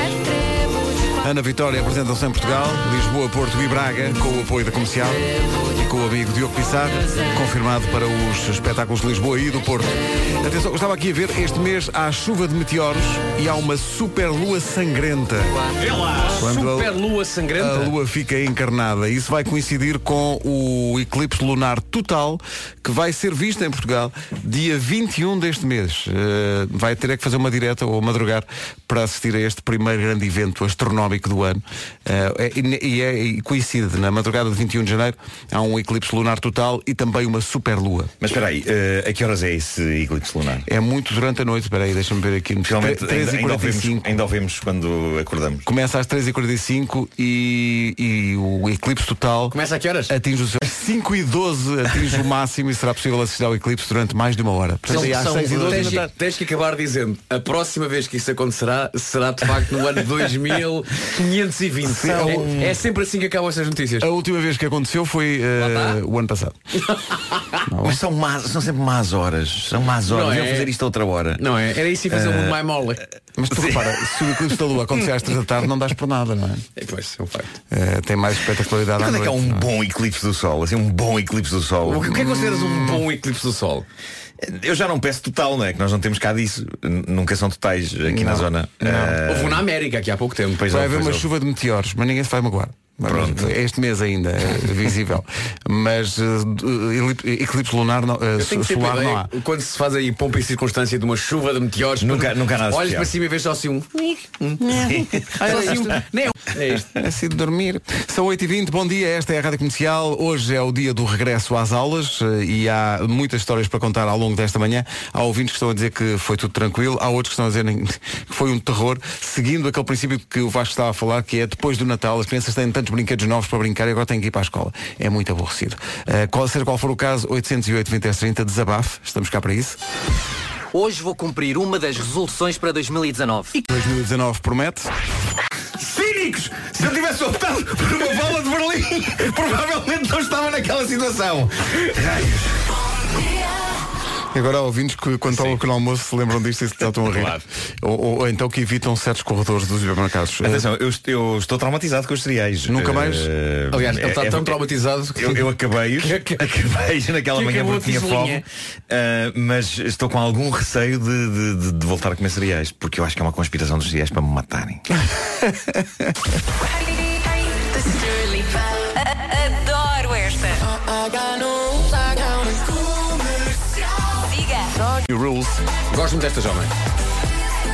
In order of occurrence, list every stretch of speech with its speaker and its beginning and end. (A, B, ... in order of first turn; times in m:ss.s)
0:01.2-0:15.6 A
0:16.2-0:17.9 B
0:16.4-0:17.0 A
0:17.6-0:38.1 A
0:38.2-0:40.6 C
0:40.7-0:44.2 A
0:42.6-0:45.7 C
0:45.6-0:49.6 A
0:49.5-0:50.1 B
0:50.1-0:56.1 A
0:54.9-1:04.1 B
1:01.8-1:02.6 A
1:02.0-1:02.8 C
1:04.0-1:06.6 A
1:05.6-1:06.0 B
1:06.8-1:07.6 B
1:07.7-1:08.0 A
1:07.8-1:11.4 C
1:10.1-1:10.7 B
1:11.4-1:13.0 B
1:12.1-1:12.6 C
1:13.4-1:16.6 A
1:13.5-1:13.9 C
1:16.8-1:17.5 B
1:17.7-1:19.7 A
1:19.0-1:22.2 C
1:21.8-1:23.9 B
1:22.2-1:22.9 A
1:24.4-1:29.6 C
1:28.1-1:29.2 A
1:29.2-1:31.0 B
1:30.6-1:31.2 C
1:30.7-1:39.3 A
1:33.1-1:33.5 C
1:38.4-1:46.9 B
1:42.0-1:43.1 C
1:44.6-1:46.0 A
1:44.7-1:45.6 C
1:46.9-2:09.8 A
2:10.7-2:13.5 D
2:13.5-2:14.9 A
2:15.8-2:22.5 C
2:24.3-2:30.7 A
2:25.3-2:25.6 B
2:27.1-2:27.4 B
2:30.4-2:34.6 C
2:32.7-2:33.3 A
2:33.7-2:35.4 B
2:35.2-2:44.9 C
2:36.0-2:36.4 B
2:37.3-2:38.4 B
2:45.4-2:46.1 A
2:47.0-2:48.2 E
2:49.0-2:50.7 E
2:54.2-2:54.8 E
2:54.9-2:55.6 A
2:55.9-2:56.7 B